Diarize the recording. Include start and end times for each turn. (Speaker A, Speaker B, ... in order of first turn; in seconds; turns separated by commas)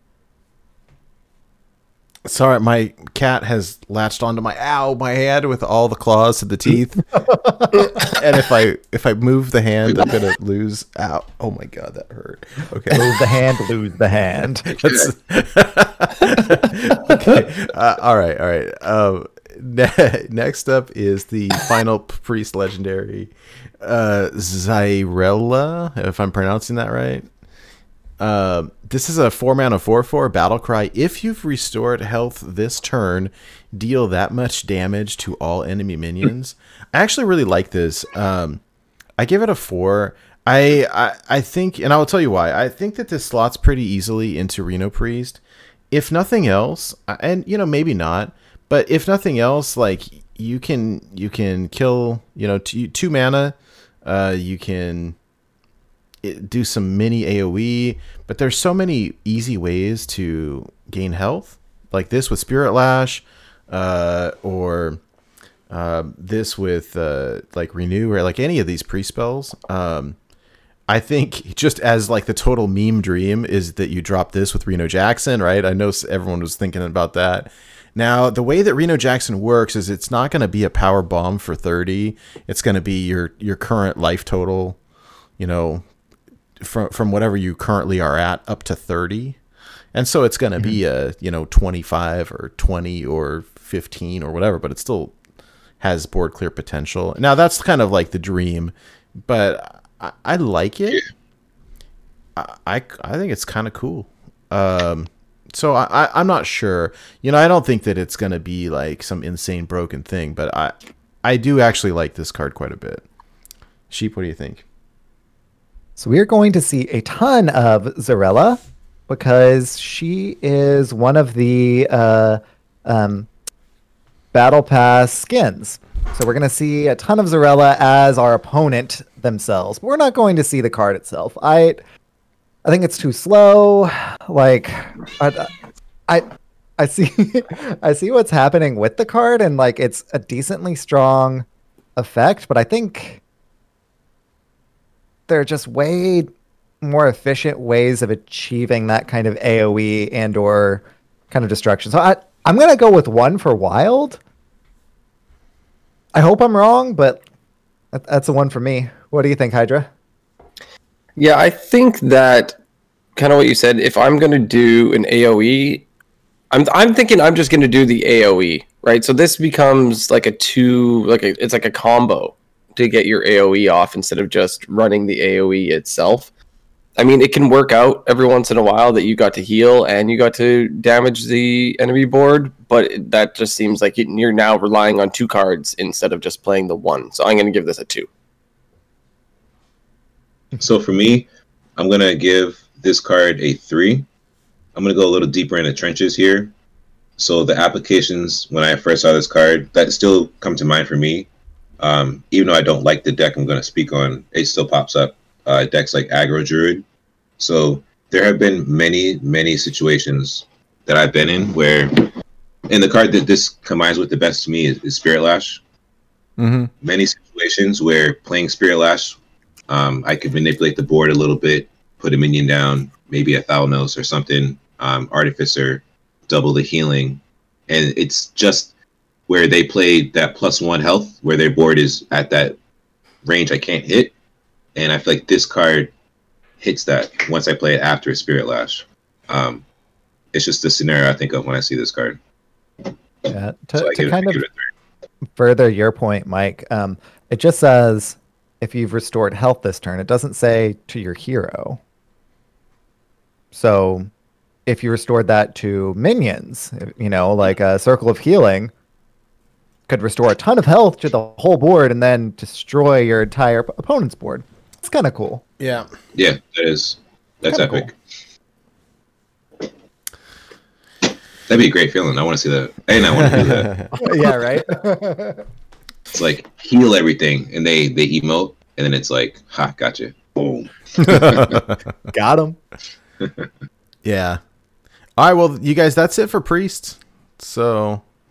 Speaker A: 2.2-7.2, Speaker B: 7.3-7.7, Speaker A: 7.9-13.4, Speaker B: 12.9-14.7, Speaker A: 14.7-27.3, Speaker C: 14.7-15.1, Speaker A: 28.2-38.6, Speaker A: 39.2-55.2, Speaker A: 56.2-65.0, Speaker A: 65.7-70.2, Speaker A: 70.9-84.8, Speaker A: 85.4-85.8, Speaker A: 86.6-89.4, Speaker A: 89.9-95.2, Speaker A: 95.8-101.0, Speaker A: 102.3-113.0, Speaker A: 113.9-114.6, Speaker B: 116.0-123.3, Speaker B: 124.3-131.8, Speaker B: 132.6-135.5, Speaker B: 136.8-141.4, Speaker B: 141.9-143.2, Speaker B: 145.3-146.3, Speaker B: 146.8-154.2, Speaker B: 156.1-157.2, Speaker B: 157.9-159.9, Speaker D: 161.2-162.6, Speaker D: 163.2-165.8, Speaker D: 166.5-176.3, Speaker D: 177.0-188.1, Speaker C: 190.6-194.1, Speaker C: 194.7-196.5, Speaker C: 197.2-201.3, Speaker C: 201.8-206.8, Speaker C: 207.4-212.1, Speaker C: 212.7-215.6, Speaker A: 216.4-216.7, Speaker C: 216.8-219.2, Speaker C: 219.7-228.7, Speaker C: 229.3-232.6, Speaker C: 233.2-234.1, Speaker C: 234.7-235.9, Speaker C: 236.6-239.6, Speaker C: 240.3-242.2, Speaker B: 243.3-244.4, Speaker C: 243.8-244.7, Speaker B: 245.3-251.8, Speaker B: 253.5-254.1, Speaker B: 254.7-258.7, Speaker B: 259.9-265.4, Speaker A: 265.6-265.9, Speaker C: 266.1-267.9, Speaker B: 267.5-267.8, Speaker C: 271.5-273.8, Speaker A: 273.0-273.9, Speaker B: 274.0-275.4, Speaker C: 276.1-281.6, Speaker A: 281.0-281.7, Speaker B: 282.1-282.6, Speaker C: 283.2-283.5, Speaker A: 284.0-284.4, Speaker A: 285.2-288.0